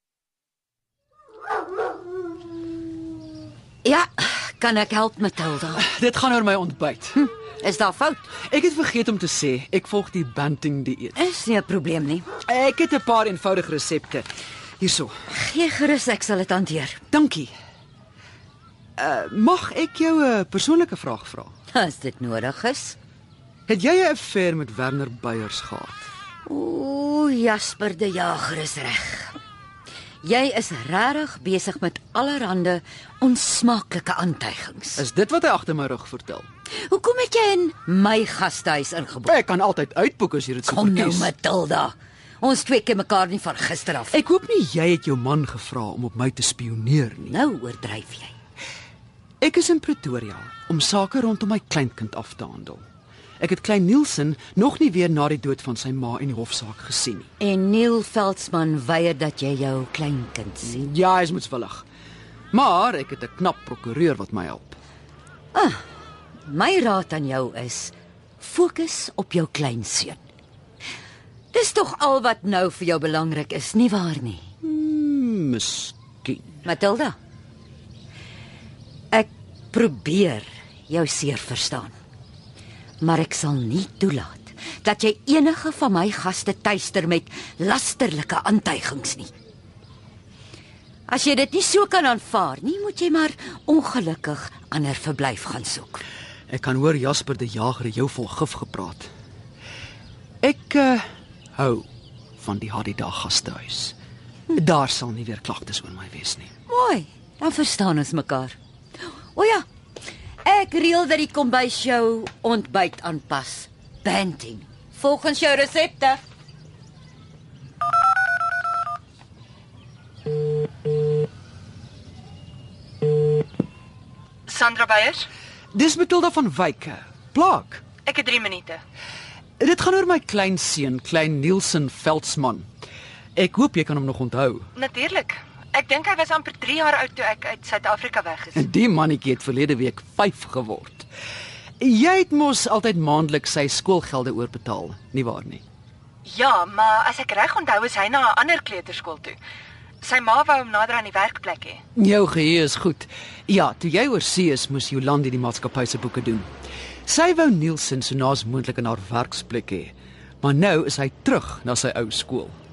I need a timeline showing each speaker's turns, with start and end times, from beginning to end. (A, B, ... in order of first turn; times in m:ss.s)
0:03.8-0:05.8 A
0:05.7-0:07.2 B
0:07.2-0:08.3 A
0:08.4-0:11.2 B
0:11.2-0:12.3 A
0:12.4-0:14.3 B
0:14.8-0:15.1 B
0:15.3-0:17.0 A
0:17.1-0:17.5 B
0:19.0-0:21.5 B
0:21.7-0:23.0 A
0:23.7-0:26.1 B
0:26.4-0:29.3 A
0:30.2-0:35.0 A
0:35.0-0:36.4 B
0:36.8-0:39.3 A
0:39.2-0:41.3 B
0:40.7-0:44.2 A
0:44.1-0:47.4 B
0:47.3-0:48.3 A
0:49.4-0:52.8 B
0:53.4-0:57.3 B
0:57.4-1:00.8 A
1:00.6-1:01.8 B
1:02.5-1:04.8 B
1:05.5-1:05.8 A
1:06.4-1:10.2 A
1:11.5-1:14.4 A
1:14.6-1:16.6 B
1:16.6-1:17.2 A
1:19.1-1:21.9 A
1:23.0-1:29.3 A
1:31.1-1:36.0 A
1:36.5-1:39.1 B
1:40.4-1:41.0 B
1:41.6-1:41.9 B
1:42.4-1:43.9 B
1:44.5-1:46.5 B
1:46.7-1:48.6 A
1:49.3-1:49.6 A
1:50.4-1:56.2 A
2:04.4-2:05.3 C
2:05.7-2:07.8 B
2:08.0-2:08.8 C
2:09.6-2:12.7 B
2:13.4-2:14.7 B
2:14.7-2:18.6 C
2:18.5-2:21.1 B
2:21.8-2:25.6 B
2:26.2-2:29.4 C
2:30.0-2:31.8 C
2:32.0-2:36.5 B
2:37.1-2:42.5 B